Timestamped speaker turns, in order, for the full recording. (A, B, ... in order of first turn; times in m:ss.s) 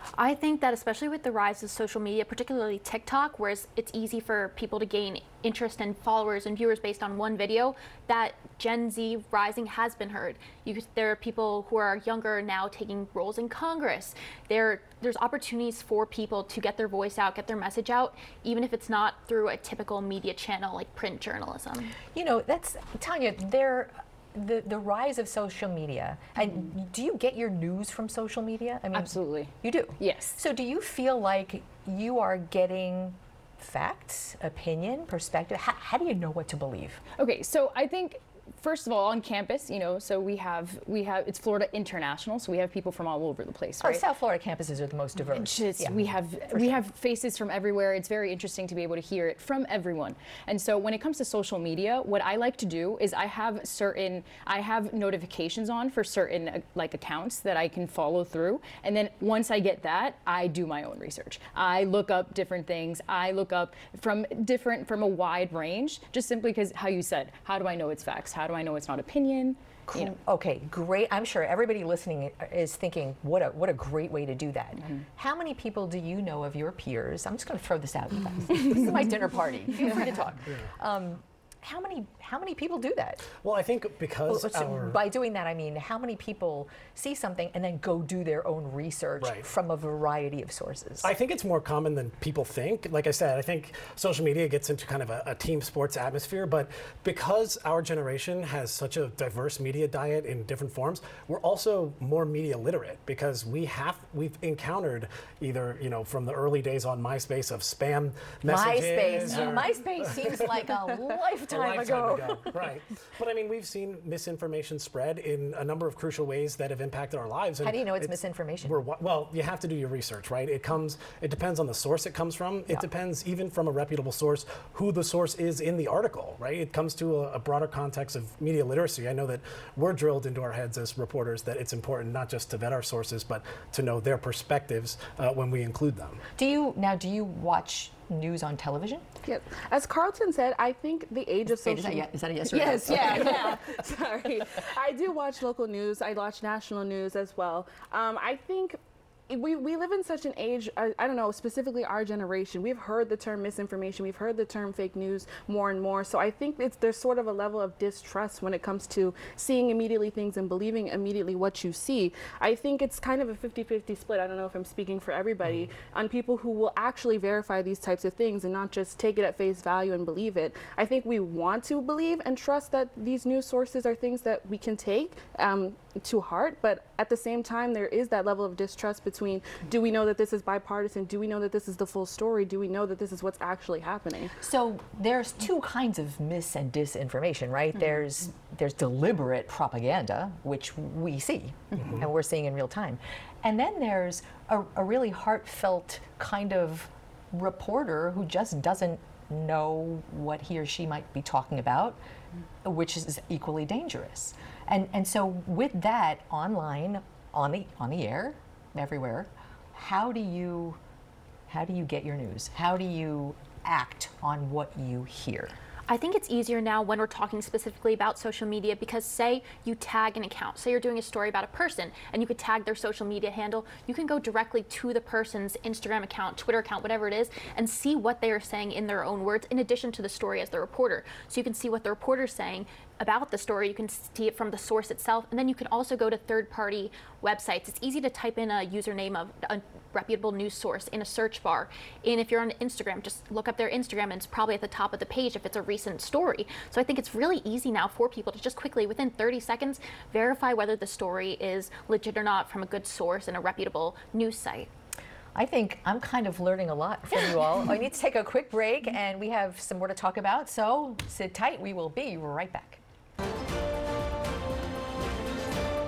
0:00.2-0:21.9 A
0:22.1-0:37.0 B
0:28.9-0:30.4 C
0:37.2-0:44.0 C
0:43.8-0:46.8 B
0:45.3-1:10.2 C
1:09.9-1:23.2 B
1:23.3-1:25.0 D
1:24.3-1:31.1 B
1:29.2-1:29.5 D
1:31.0-1:50.4 D
1:48.4-1:52.5 B
1:51.5-2:16.2 D
1:57.6-1:58.8 B
2:16.4-2:19.0 B
2:19.2-3:04.3 E
2:21.5-2:23.8 B
3:04.4-3:22.0 B
3:22.6-3:30.8 B
3:31.5-3:35.5 B
3:35.9-4:14.7 A
4:15.4-4:22.8 B